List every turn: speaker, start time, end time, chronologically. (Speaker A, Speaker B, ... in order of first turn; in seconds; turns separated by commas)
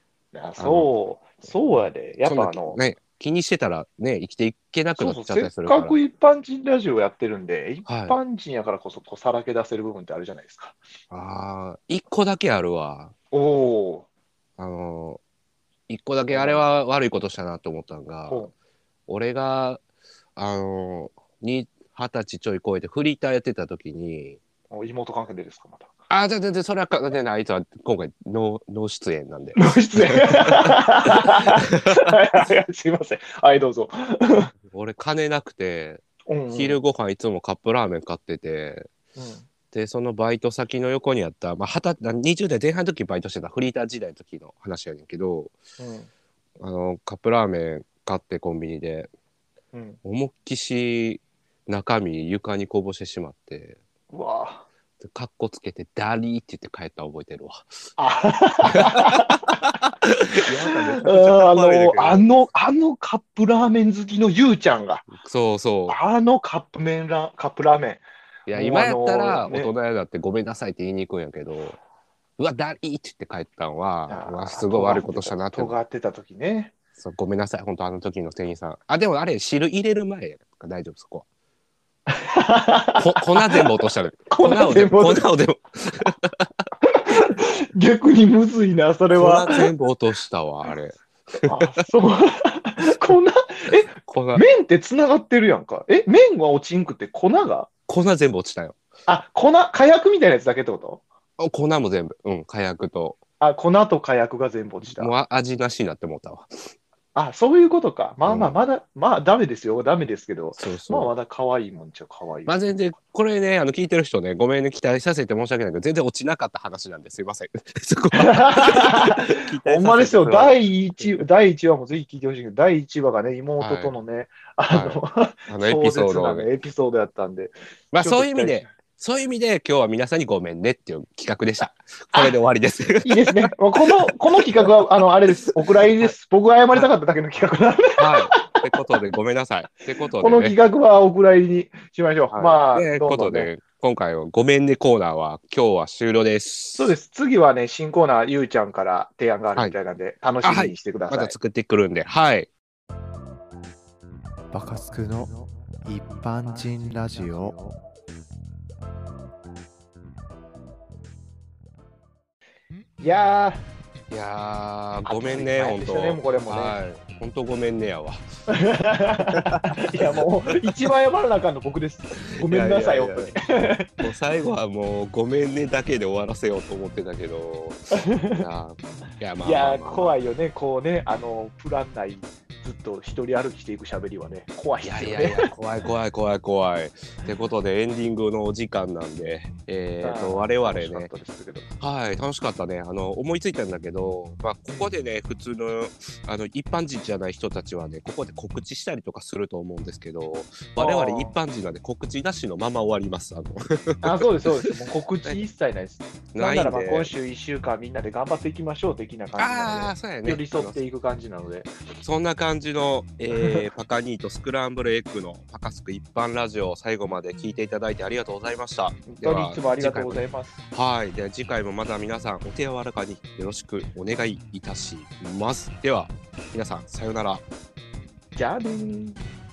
Speaker A: 0.3-2.8, Speaker B: 0.6-0.9, Speaker B: 2.2-6.0, Speaker A: 5.0-10.8, Speaker B: 7.8-8.2, Speaker B: 11.1-13.1, Speaker A: 13.3-14.0, Speaker B: 14.6-15.2, Speaker B: 15.9-18.4, Speaker A: 16.3-16.6, Speaker B: 19.1-19.8, Speaker B: 20.4-24.4, Speaker A: 24.7-25.9, Speaker B: 26.1-31.2, Speaker A: 29.5-34.5, Speaker B: 31.8-32.1, Speaker B: 34.7-38.9, Speaker A: 36.3-36.8, Speaker A: 39.1-39.4, Speaker B: 39.7-45.5, Speaker A: 45.8-46.1, Speaker B: 46.6-49.1, Speaker A: 49.7-50.0, Speaker B: 50.0-53.8, Speaker A: 54.1-54.6, Speaker B: 55.0-57.7, Speaker A: 58.0-59.4, Speaker B: 59.0-59.3, Speaker B: 60.3-62.2, Speaker A: 61.0-65.0, Speaker B: 65.1-66.0, Speaker A: 65.9-69.7, Speaker B: 68.5-71.8, Speaker B: 72.4-75.8, Speaker A: 74.1-76.7, Speaker B: 77.0-81.2, Speaker A: 82.1-83.7, Speaker B: 83.0-86.5, Speaker A: 84.3-85.3, Speaker A: 86.9-89.7, Speaker B: 89.1-91.6, Speaker A: 91.4-97.7, Speaker B: 94.0-94.4, Speaker B: 97.9-98.8, Speaker A: 99.1-101.0, Speaker B: 101.4-103.2, Speaker A: 103.4-105.1, Speaker B: 104.9-106.7, Speaker A: 107.1-112.6, Speaker B: 108.2-108.6, Speaker B: 110.6-111.1, Speaker B: 112.5-121.1, Speaker A: 118.1-128.7, Speaker B: 123.6-123.9, Speaker B: 124.7-126.5, Speaker B: 127.9-133.5, Speaker A: 133.0-138.6, Speaker B: 134.1-134.7, Speaker B: 138.0-140.6, Speaker A: 140.2-143.5, Speaker B: 142.3-146.9, Speaker A: 146.7-151.3, Speaker B: 150.4-152.5, Speaker C: 154.5-157.7, Speaker A: 163.0-163.6, Speaker B: 164.1-168.2, Speaker A: 165.1-166.8, Speaker A: 168.5-174.0, Speaker B: 169.3-170.2, Speaker B: 172.4-173.4, Speaker B: 174.0-180.1, Speaker A: 178.0-178.4, Speaker A: 179.4-185.5, Speaker B: 184.8-191.1, Speaker A: 190.0-191.7, Speaker B: 191.8-204.3, Speaker A: 200.8-201.4, Speaker A: 204.0-211.7, Speaker B: 206.3-207.1, Speaker B: 209.4-210.8, Speaker B: 212.0-227.4, Speaker A: 213.3-213.6, Speaker A: 219.1-220.5, Speaker A: 228.3-229.2